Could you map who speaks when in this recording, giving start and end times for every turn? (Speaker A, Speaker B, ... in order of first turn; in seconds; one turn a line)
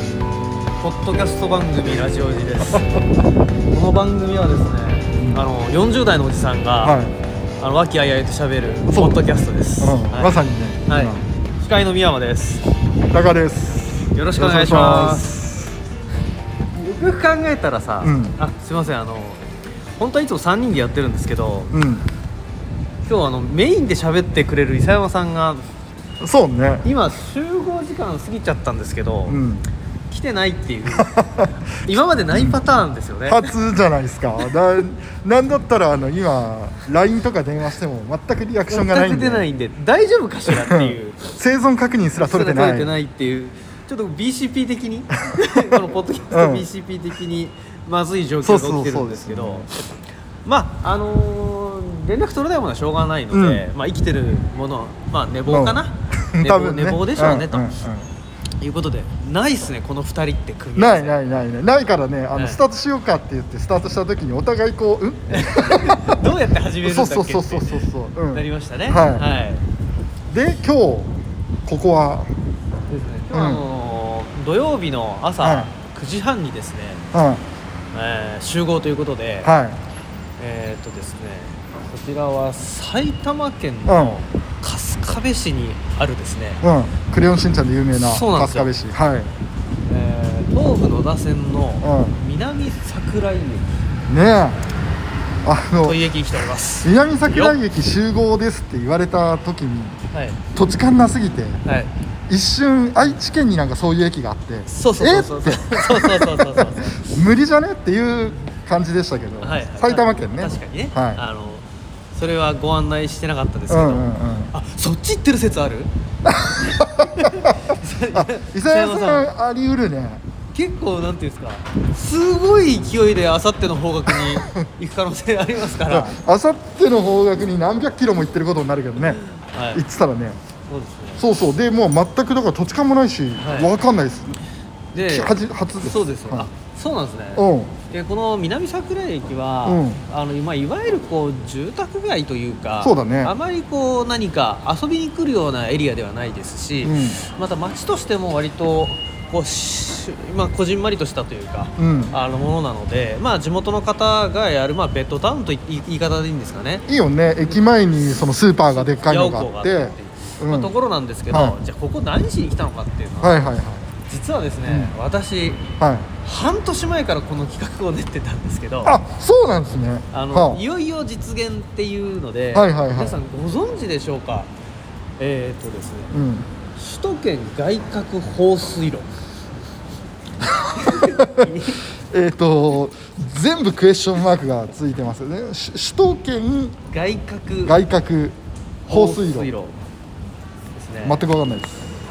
Speaker A: 0.8-3.0
Speaker A: 3.7-7.0
Speaker B: 5.2-5.4
Speaker B: 6.8-7.1
Speaker A: 7.6-12.6
Speaker B: 8.9-9.2
Speaker B: 9.8-11.2
Speaker B: 13.1-15.7
Speaker A: 14.1-15.4
Speaker A: 16.7-21.7
Speaker B: 18.0-18.3
Speaker B: 21.7-22.0
Speaker A: 23.1-25.6
Speaker B: 26.2-26.8
Speaker A: 26.8-29.4
Speaker B: 29.3-29.6
Speaker A: 30.1-31.1
Speaker B: 30.9-31.5
Speaker A: 31.8-33.5
Speaker B: 32.3-32.6
Speaker B: 33.2-39.4
Speaker A: 38.7-41.2
Speaker B: 40.5-42.9
Speaker A: 42.2-49.8
Speaker B: 45.3-45.8
Speaker B: 46.3-46.6
Speaker B: 48.4-49.7
Speaker A: 50.4-57.8
Speaker B: 53.3-53.6
Speaker B: 55.5-58.1
Speaker A: 58.6-61.4
Speaker B: 60.8-66.2
Speaker A: 62.3-62.6
Speaker A: 65.3-69.6
Speaker B: 66.8-69.3
Speaker B: 70.3-71.1
Speaker B: 71.7-72.3
Speaker A: 72.9-77.0
Speaker B: 73.3-73.6
Speaker B: 75.4-75.7
Speaker B: 77.1-77.4
Speaker A: 77.9-79.5
Speaker B: 79.4-79.8
Speaker A: 80.4-86.6
Speaker B: 83.8-84.2
Speaker B: 86.6-89.3
Speaker A: 88.0-88.7
Speaker A: 89.9-93.8
Speaker B: 91.8-92.2
Speaker B: 94.1-94.6
Speaker B: 95.4-96.0
Speaker A: 95.8-97.5
Speaker B: 96.8-100.0
Speaker A: 100.1-100.4
Speaker B: 100.5-101.6
Speaker A: 101.7-101.9
Speaker B: 102.3-111.2
Speaker A: 104.7-107.1
Speaker A: 109.4-115.9
Speaker B: 113.7-114.5
Speaker B: 116.3-120.2
Speaker A: 117.2-119.3
Speaker A: 120.5-126.1
Speaker B: 124.3-124.7
Speaker B: 125.8-129.2
Speaker A: 129.3-129.8
Speaker B: 129.7-130.4
Speaker A: 130.7-131.2
Speaker B: 131.2-134.4
Speaker A: 133.4-133.7
Speaker A: 134.9-156.8
Speaker B: 135.0-136.5
Speaker B: 137.3-137.7
Speaker B: 139.6-140.0
Speaker B: 142.8-143.3
Speaker B: 146.8-147.2
Speaker B: 151.8-152.1
Speaker B: 156.9-160.7
Speaker A: 158.7-165.6
Speaker B: 161.3-161.6
Speaker B: 163.2-163.8
Speaker B: 164.7-164.9
Speaker B: 165.8-166.1
Speaker A: 166.2-168.9
Speaker B: 168.8-170.6
Speaker A: 170.1-174.5
Speaker B: 172.5-173.2
Speaker A: 175.2-176.1
Speaker B: 176.1-176.5
Speaker A: 176.7-179.1
Speaker B: 180.4-181.5
Speaker A: 180.8-181.8
Speaker B: 182.1-186.8
Speaker A: 186.9-187.8
Speaker B: 187.6-189.5
Speaker A: 188.9-189.8
Speaker A: 190.7-191.2
Speaker B: 191.0-191.9